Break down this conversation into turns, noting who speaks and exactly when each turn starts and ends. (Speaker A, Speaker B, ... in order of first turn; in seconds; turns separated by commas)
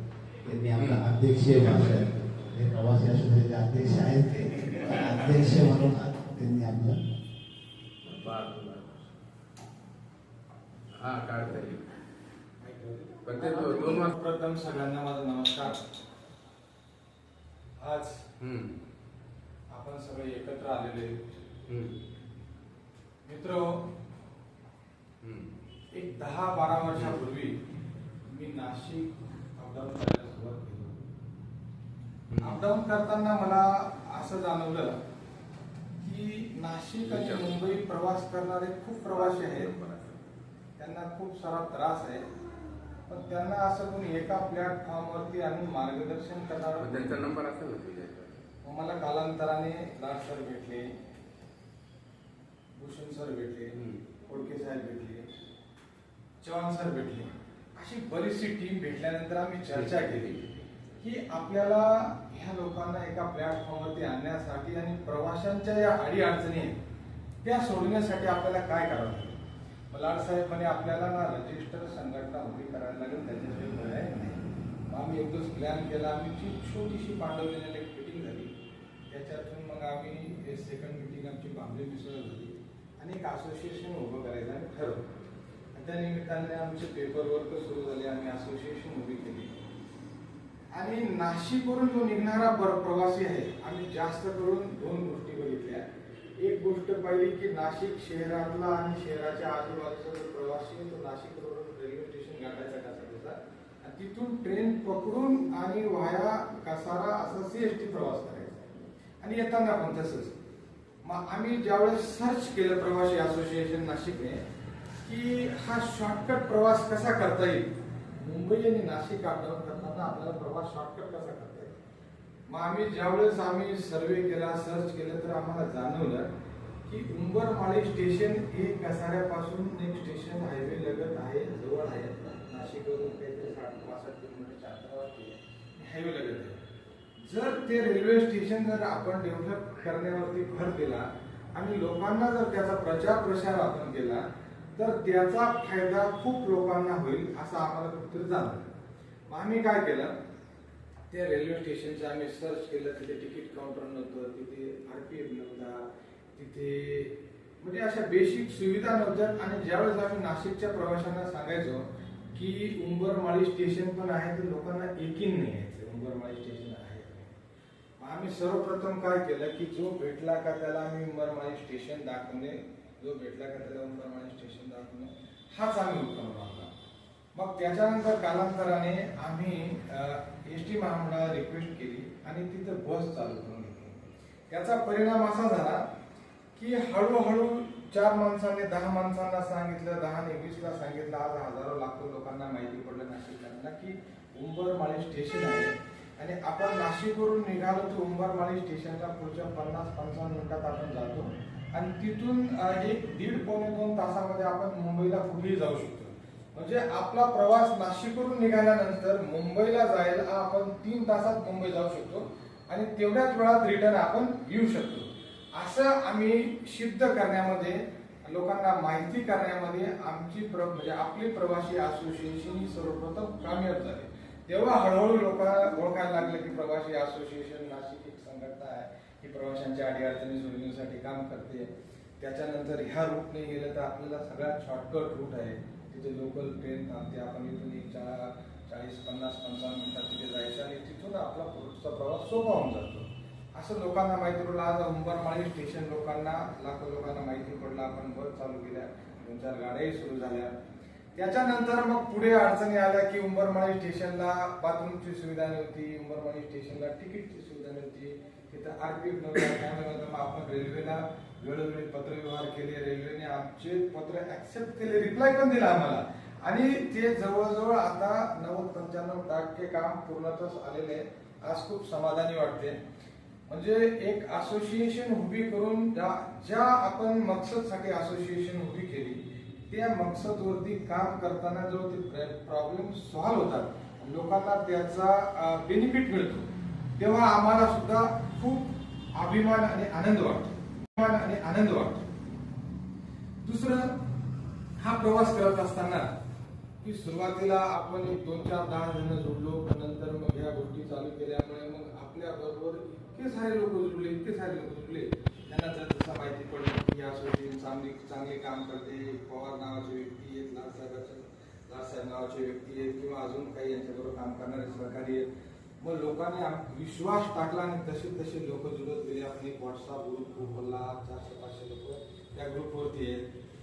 Speaker A: 0.5-7.0, Speaker B: 0.8-1.1, Speaker B: 1.6-1.9, Speaker B: 8.1-9.1, Speaker B: 10.9-11.8, Speaker C: 12.6-15.8, Speaker B: 13.2-14.2, Speaker C: 17.8-18.2, Speaker B: 18.4-18.8, Speaker C: 19.7-21.2, Speaker B: 21.7-21.9, Speaker C: 23.2-23.9, Speaker B: 25.2-25.5, Speaker C: 25.9-27.6, Speaker C: 28.3-31.1, Speaker B: 32.3-32.6, Speaker C: 32.4-35.0, Speaker C: 36.0-39.7, Speaker B: 37.0-37.7, Speaker B: 39.1-40.2, Speaker C: 40.8-42.3, Speaker C: 43.1-47.3, Speaker B: 46.8-48.4, Speaker C: 48.6-50.9, Speaker C: 52.8-55.3, Speaker B: 53.8-54.0, Speaker C: 56.4-66.8, Speaker B: 59.7-60.5, Speaker C: 67.4-69.4, Speaker C: 69.9-78.5, Speaker C: 79.1-85.0, Speaker C: 85.8-89.5, Speaker C: 90.7-95.8, Speaker C: 96.4-110.4, Speaker C: 111.0-114.4, Speaker C: 115.0-121.8, Speaker C: 122.5-126.3, Speaker C: 126.9-136.7, Speaker C: 137.2-148.7, Speaker C: 149.3-150.1, Speaker C: 151.1-167.4, Speaker C: 168.0-176.7, Speaker C: 177.3-185.8, Speaker C: 186.6-250.5, Speaker C: 251.2-272.8, Speaker C: 273.5-286.5, Speaker C: 287.0-292.1, Speaker C: 293.4-293.9, Speaker C: 294.8-296.1, Speaker C: 296.8-315.2, Speaker C: 315.8-323.2